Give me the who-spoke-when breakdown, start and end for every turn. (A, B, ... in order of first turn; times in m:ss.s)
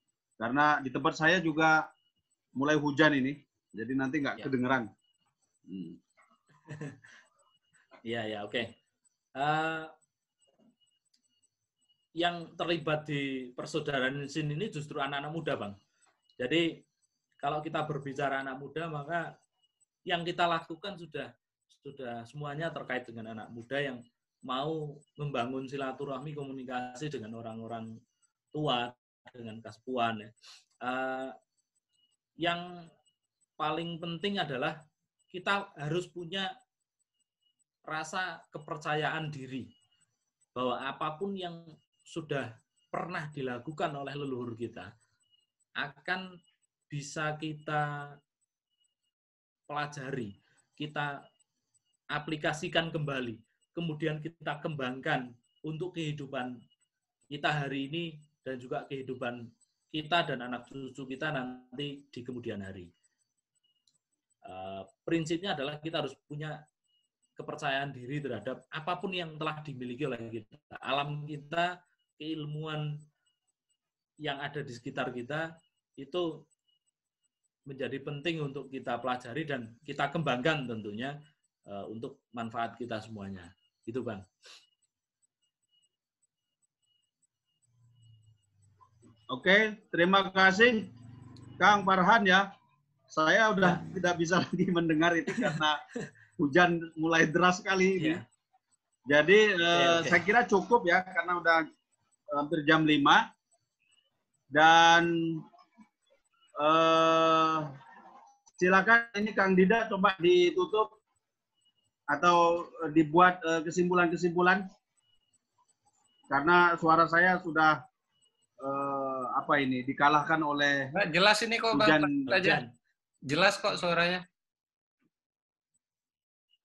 0:00.4-0:01.9 A
0:02.6-0:04.9 A
0:05.7-0:06.0 A
0:06.6-0:07.0 B
0:08.0-0:08.7 B
0:09.4-0:09.9 B
0:12.2-0:15.8 B
0:16.4-0:16.8 B
0:17.4-0:19.3 B
0:20.1-0:27.9 B
0:28.5-0:31.3 B
0:32.4-0:32.9 B
0:33.6-0:34.8 B
0:35.3-0:36.5 B
0:37.9-0:39.7 B
0:40.5-0:44.9 B
0:45.8-0:46.3 B
0:46.9-0:48.1 B
0:49.7-0:51.2 B
0:52.1-0:56.6 B
0:57.3-1:02.9 B
1:04.4-1:06.6 B
1:07.4-1:13.0 B
1:14.2-1:16.4 B
1:17.7-1:21.1 B
1:21.6-1:24.2 B
1:29.3-1:30.9 A
1:31.6-1:32.5 A
1:33.1-1:35.8 A
1:36.4-1:38.2 A
1:38.0-1:38.2 B
1:39.1-1:41.6 A
1:39.7-1:40.2 B
1:42.3-1:43.2 A
1:44.5-1:45.4 A
1:46.6-1:47.7 A
1:48.6-1:50.9 A
1:52.1-1:54.6 A
1:56.3-1:57.8 A
1:58.6-2:00.9 A
2:00.9-2:02.6 C
2:01.7-2:02.3 A
2:02.3-2:02.7 B
2:03.3-2:04.2 C